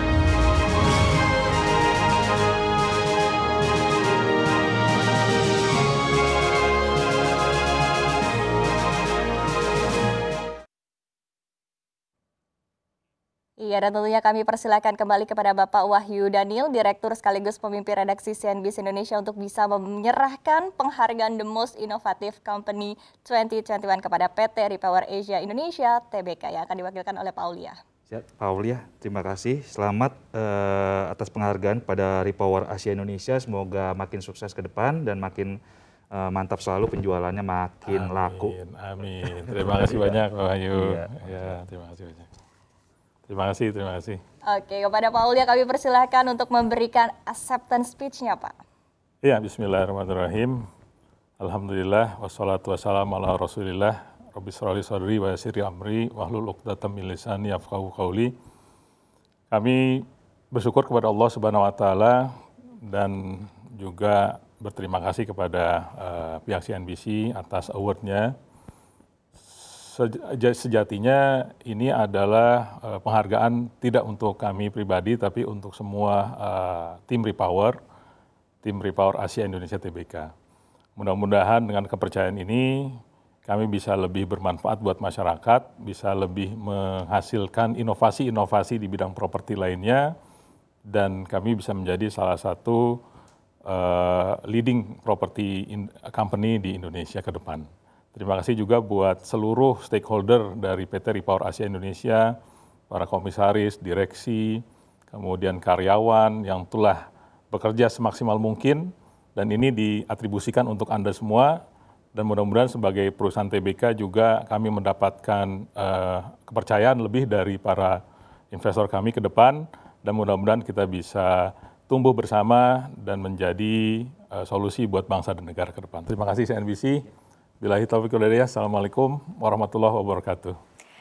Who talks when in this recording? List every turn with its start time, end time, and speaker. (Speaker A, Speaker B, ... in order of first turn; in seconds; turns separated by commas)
Speaker A: 13.6-27.8, Speaker B: 28.1-35.6, Speaker B: 36.1-38.5, Speaker C: 37.9-42.3, Speaker B: 39.4-40.2, Speaker B: 40.7-41.4, Speaker C: 43.3-44.2, Speaker A: 44.5-48.5, Speaker C: 49.2-50.6, Speaker C: 51.4-58.3, Speaker C: 59.5-62.3, Speaker C: 62.8-68.3, Speaker C: 69.5-77.8, Speaker C: 78.6-80.3, Speaker C: 81.0-90.1, Speaker C: 90.9-93.0, Speaker C: 93.7-102.3, Speaker C: 102.9-111.6, Speaker C: 112.1-118.0, Speaker C: 118.5-127.0, Speaker C: 127.6-130.6